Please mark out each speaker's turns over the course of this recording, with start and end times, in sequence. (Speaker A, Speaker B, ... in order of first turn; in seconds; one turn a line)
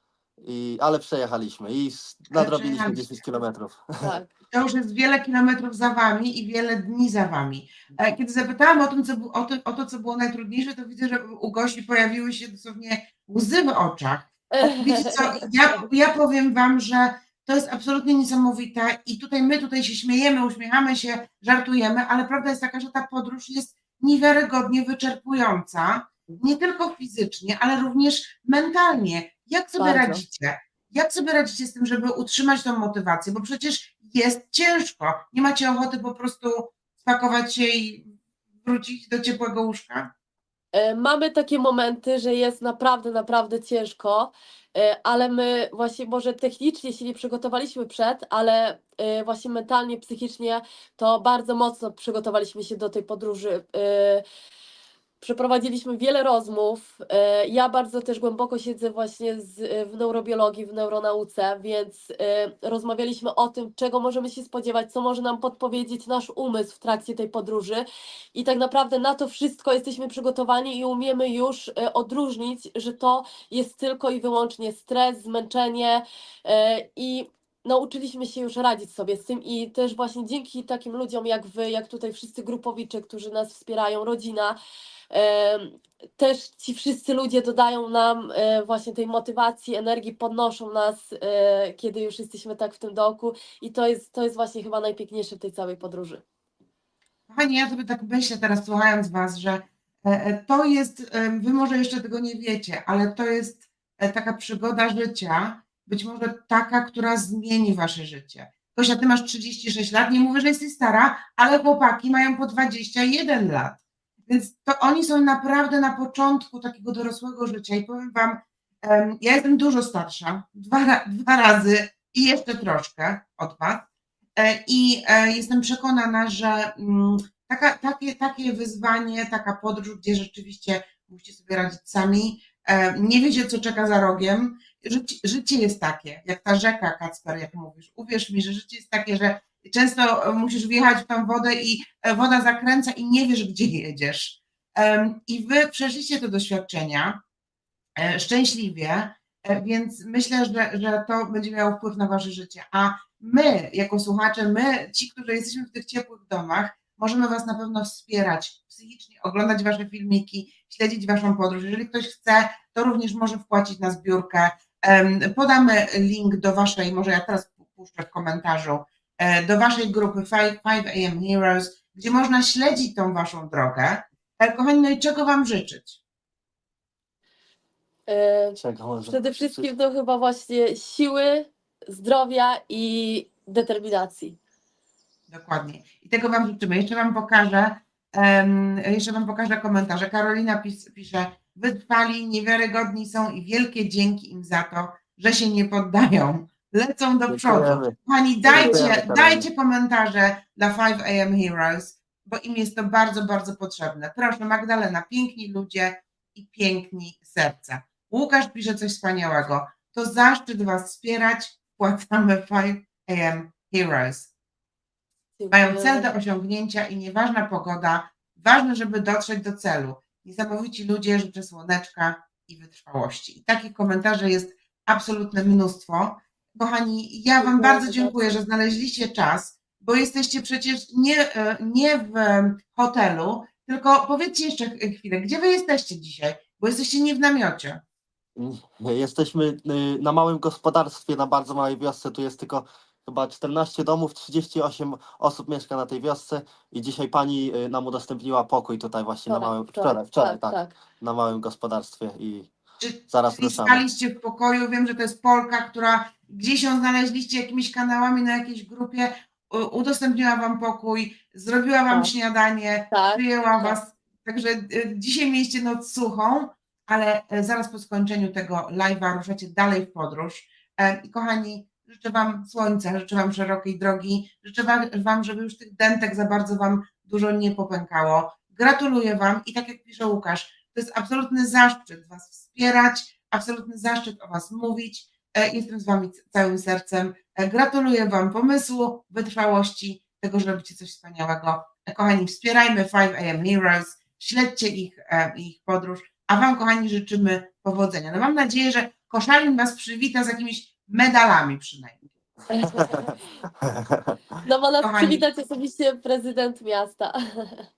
Speaker A: 0.4-3.8
Speaker B: 2.3-3.2
Speaker C: 4.0-4.3
Speaker B: 4.5-40.1
Speaker C: 14.5-15.8
Speaker C: 29.8-30.2
Speaker C: 40.7-54.2
Speaker C: 55.2-84.5
Speaker C: 85.1-96.2
Speaker B: 97.3-123.8
Speaker B: 124.4-147.2
Speaker B: 148.0-176.0
Speaker C: 178.1-184.4
Speaker A: 178.6-179.7
Speaker B: 185.3-214.3
Speaker A: 197.3-197.9
Speaker C: 198.5-198.8
Speaker A: 198.5-199.5
Speaker C: 215.4-216.1
Speaker B: 215.5-237.8
Speaker C: 227.4-228.3
Speaker A: 238.3-252.5
Speaker C: 249.3-250.7
Speaker B: 252.8-302.0
Speaker A: 253.1-253.8
Speaker C: 262.9-263.8
Speaker C: 302.5-303.2
Speaker C: 304.4-307.6
Speaker B: 304.8-305.2